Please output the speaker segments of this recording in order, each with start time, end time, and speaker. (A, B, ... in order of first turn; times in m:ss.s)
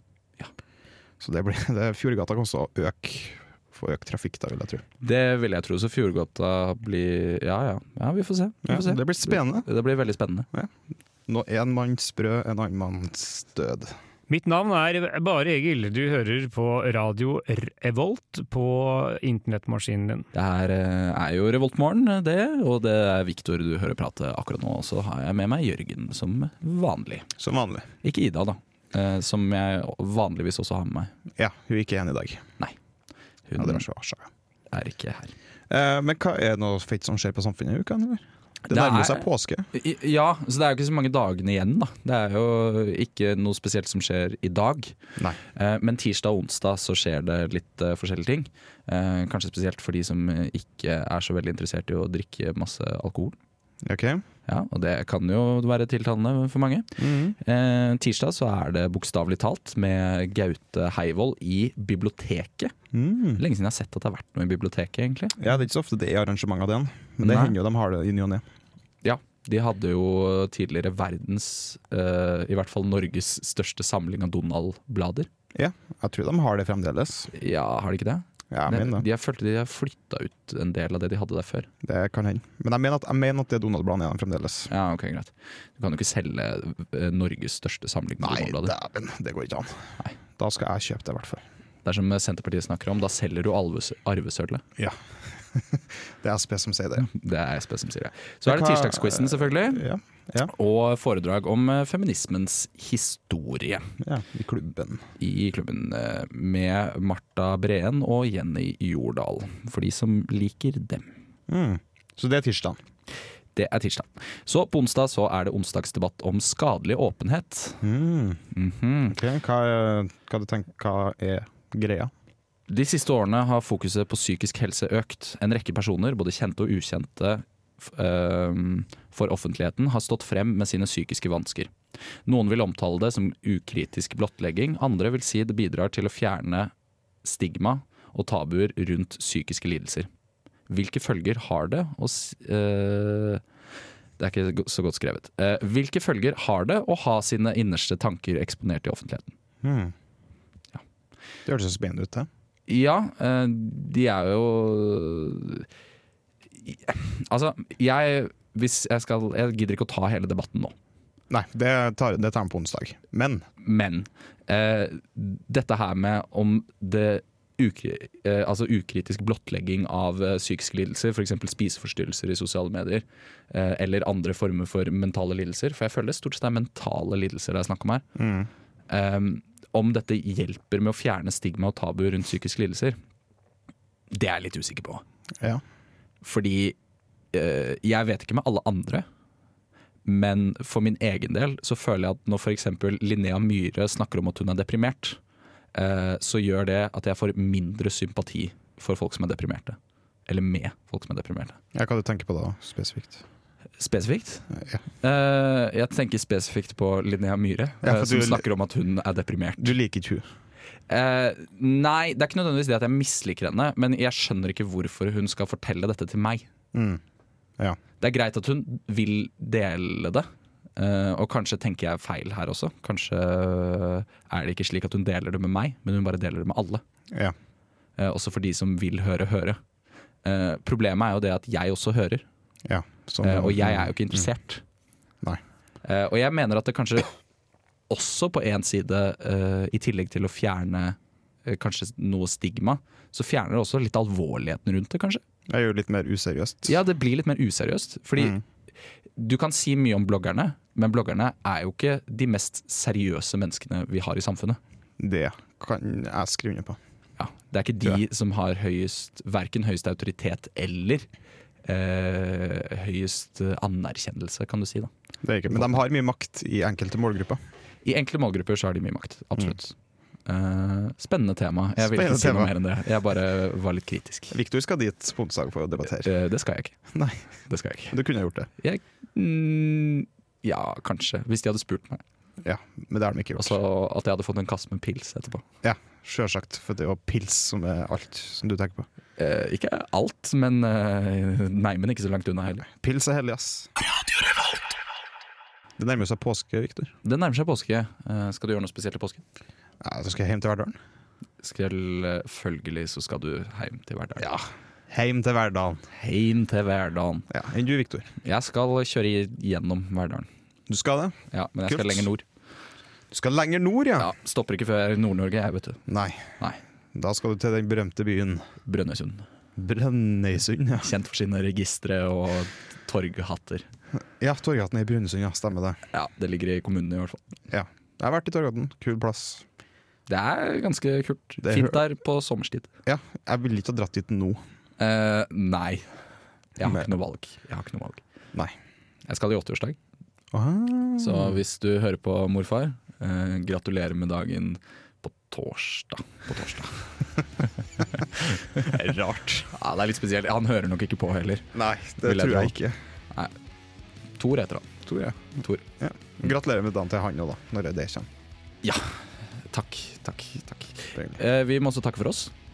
0:01.2-0:04.8 A
0:05.0-0:10.5 B
0:08.6-0:09.7 A
0:11.3-0:13.9 A
0:14.3-0:20.3 C
0:20.3-0:27.3 B
0:27.4-0:27.9 A
0:28.0-0:31.1 B
0:31.4-0:32.4 A
0:33.5-0:33.8 B
0:33.6-0:34.3 A
0:34.7-0:35.3 B
0:35.7-0:39.7 A
0:38.7-0:45.0 B
0:45.5-0:53.4 B
0:53.8-0:54.2 A
0:54.5-1:02.7 B
0:57.0-0:57.4 A
1:02.9-1:03.4 A
1:03.4-1:05.4 B
1:05.4-1:08.4 A
1:07.2-1:07.5 B
1:09.0-1:15.3 B
1:15.5-1:17.3 A
1:17.3-1:21.7 B
1:18.5-1:19.0 A
1:21.8-1:24.7 A
1:24.7-1:28.7 B
1:28.2-1:31.4 A
1:31.8-1:34.6 B
1:34.8-1:37.1 A
1:37.0-1:39.8 B
1:38.4-1:40.5 A
1:40.4-1:43.9 B
1:44.0-1:45.0 A
1:45.2-1:51.1 B
1:51.5-1:52.8 A
1:53.5-1:57.8 B
1:57.8-1:58.4 A
1:58.5-1:59.2 B
1:59.1-2:02.1 A
2:02.7-2:11.7 B
2:12.2-2:16.7 B
2:17.2-2:20.1 B
2:20.7-2:23.4 B
2:24.2-2:29.3 B
2:29.6-2:29.9 A
2:31.4-2:32.3 A
2:32.7-2:35.7 B
2:36.6-2:40.7 B
2:41.3-2:43.4 A
2:43.6-2:58.0 B
2:58.2-2:58.5 A
2:58.9-3:03.0 B
3:04.1-3:05.0 B
3:06.2-3:06.7 B
3:07.3-3:09.0 B
3:10.0-3:15.2 B
3:15.7-3:21.6 B
3:21.7-3:23.2 A
3:23.8-3:24.5 B
3:24.5-3:24.8 A
3:25.0-3:29.7 B
3:27.8-3:28.4 A
3:29.6-3:30.2 A
3:30.9-3:36.5 B
3:36.7-3:37.0 A
3:38.0-3:46.8 B
3:48.0-3:49.6 B
3:50.2-3:52.2 B
3:52.6-3:54.3 A
3:53.2-3:54.6 B
3:55.8-3:57.1 B
3:57.9-4:05.2 B
4:05.5-4:06.8 A
4:06.6-4:08.4 B
4:08.2-4:08.4 A
4:09.2-4:14.6 B
4:15.0-4:16.8 A
4:17.2-4:21.0 B
4:21.6-4:24.9 B
4:25.2-4:27.4 A
4:25.5-4:25.8 B
4:27.8-4:29.7 B
4:30.2-4:34.3 B
4:31.8-4:32.5 A
4:34.3-4:36.1 A
4:36.0-4:36.8 B
4:36.9-4:37.2 A
4:37.5-4:38.0 B
4:37.9-4:38.5 A
4:38.6-4:42.0 B
4:42.4-4:43.6 A
4:43.4-4:45.4 B
4:45.6-4:48.9 A
4:49.2-4:52.6 B
4:52.6-4:53.7 A
4:55.8-4:56.9 A
4:57.0-4:59.2 B
4:59.8-5:00.8 A
5:01.4-5:04.3 B
5:04.2-5:05.8 A
5:05.9-5:07.3 B
5:07.3-5:08.1 A
5:08.2-5:10.3 B
5:10.7-5:12.1 A
5:11.3-5:12.2 B
5:13.1-5:14.1 A
5:14.0-5:15.8 B
5:15.9-5:16.2 A
5:16.9-5:18.5 A
5:18.6-5:19.2 B
5:19.6-5:20.9 A
5:20.8-5:23.6 B
5:24.2-5:25.8 A
5:25.9-5:27.2 B
5:27.5-5:29.4 A
5:30.1-5:32.7 B
5:31.4-5:31.8 A
5:32.8-5:34.4 A
5:34.8-5:35.9 B
5:36.6-5:38.0 B
5:36.6-5:36.8 A
5:39.1-5:39.8 B
5:40.3-5:41.4 A
5:41.0-5:46.9 B
5:47.4-5:48.7 B
5:48.6-5:49.5 A
5:49.5-5:52.6 B
5:51.5-5:52.8 A
5:54.2-5:54.8 B
5:54.8-5:55.2 A
5:55.4-5:55.6 B
5:55.8-5:58.1 A
5:58.6-5:59.0 B
5:59.5-6:02.3 B